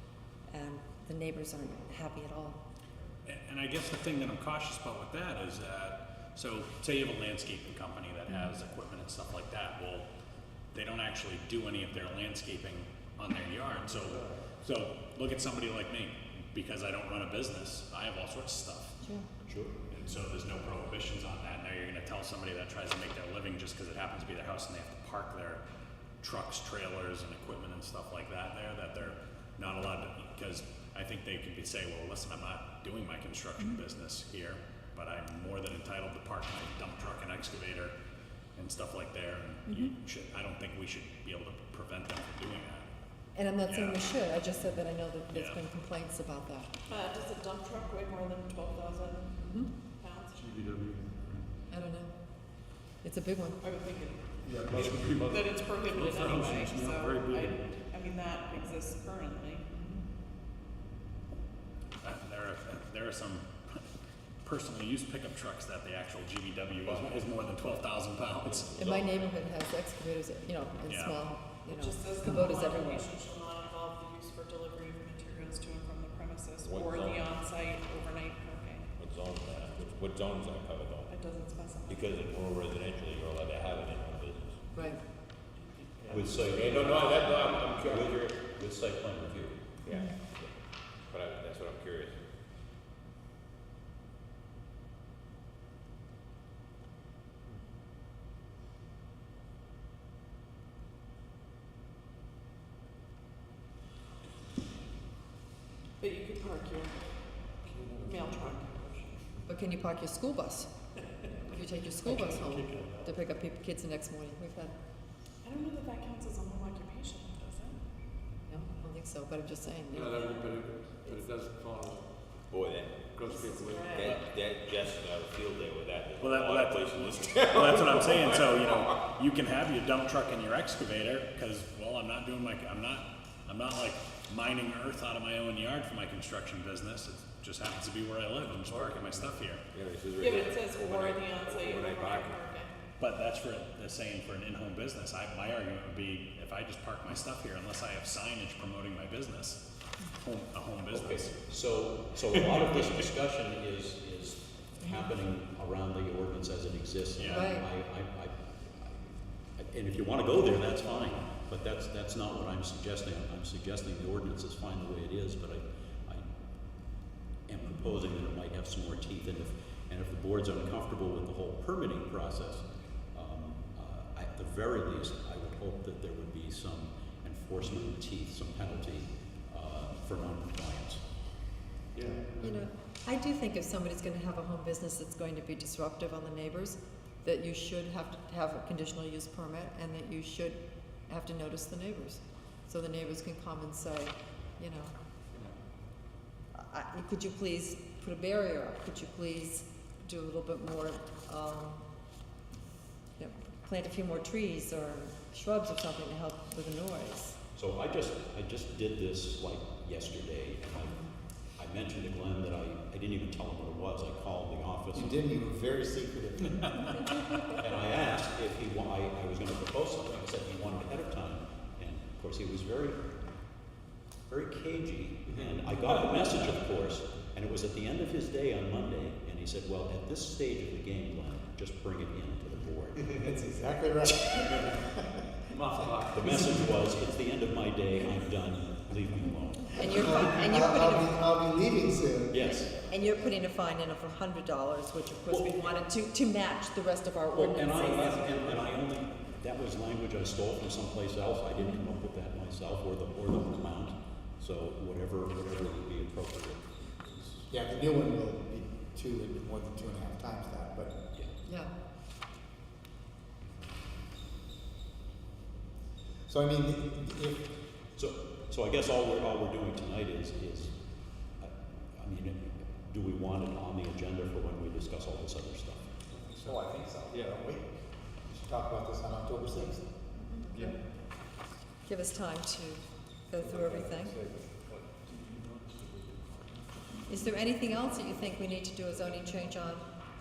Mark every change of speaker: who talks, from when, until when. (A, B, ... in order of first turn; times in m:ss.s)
0:00.5-0:02.6 A
0:03.2-0:10.1 B
0:10.7-0:19.0 B
0:13.9-0:14.3 C
0:19.5-0:19.7 D
0:19.9-0:25.6 B
0:26.2-0:37.9 B
0:38.6-0:42.9 B
0:43.4-0:46.7 A
0:43.6-0:44.1 B
0:45.3-0:45.6 B
0:46.9-0:49.4 E
0:49.4-0:49.7 A
0:50.0-0:50.5 E
0:50.3-0:51.2 C
0:51.7-0:52.1 A
0:53.0-0:53.6 A
0:53.6-0:54.3 E
0:54.4-0:57.7 C
0:54.7-0:55.4 F
0:55.1-0:59.7 E
1:02.0-1:03.9 B
1:04.4-1:08.7 B
1:06.9-1:07.2 F
1:08.5-1:09.3 F
1:08.8-1:13.1 A
1:10.9-1:11.2 B
1:11.7-1:18.9 E
1:16.6-1:17.4 F
1:19.0-1:21.1 F
1:21.1-1:22.3 E
1:21.9-1:24.6 F
1:24.7-1:25.0 A
1:26.0-1:26.3 C
1:26.1-1:29.7 D
1:26.5-1:28.1 F
1:29.8-1:30.4 F
1:31.1-1:32.2 F
1:46.0-1:47.0 E
1:47.6-1:49.2 C
1:48.0-1:48.8 E
1:49.5-1:50.7 A
1:51.5-1:54.7 A
1:52.0-1:53.2 C
1:55.4-1:57.8 E
1:58.5-2:00.3 A
1:59.9-2:02.1 C
2:02.5-2:03.1 F
2:03.1-2:04.0 C
2:03.2-2:04.2 E
2:03.9-2:09.0 F
2:06.2-2:19.6 B
2:18.7-2:22.4 F
2:20.2-2:22.7 E
2:23.0-2:29.6 B
2:30.2-2:31.4 B
2:30.9-2:46.2 D
2:37.2-2:37.5 B
2:37.3-2:37.6 A
2:47.5-3:01.0 D
3:01.9-3:02.7 C
3:02.4-3:14.9 A
3:16.6-3:21.8 A
3:23.2-3:27.4 A
3:27.6-3:31.0 D
3:31.6-3:35.2 D
3:35.0-3:36.9 G
3:37.5-3:43.1 D
3:44.3-3:53.0 D
3:53.0-3:55.3 G
3:55.6-3:56.2 C
3:56.1-4:00.4 D
3:59.8-4:01.3 A
3:59.9-4:02.6 G
4:02.3-4:02.8 D
4:02.9-4:08.6 A
4:05.3-4:05.8 D
4:07.3-4:17.5 D
4:17.5-4:20.9 G
4:21.4-4:21.7 A
4:26.3-4:27.5 G
4:28.0-4:30.7 D
4:31.4-4:35.9 D
4:36.1-4:36.6 C
4:36.4-4:37.7 G
4:37.1-4:37.4 C
4:38.3-4:39.9 G
4:40.2-4:40.8 A
4:41.8-4:44.2 A
4:43.4-4:46.6 C
4:47.1-4:49.9 A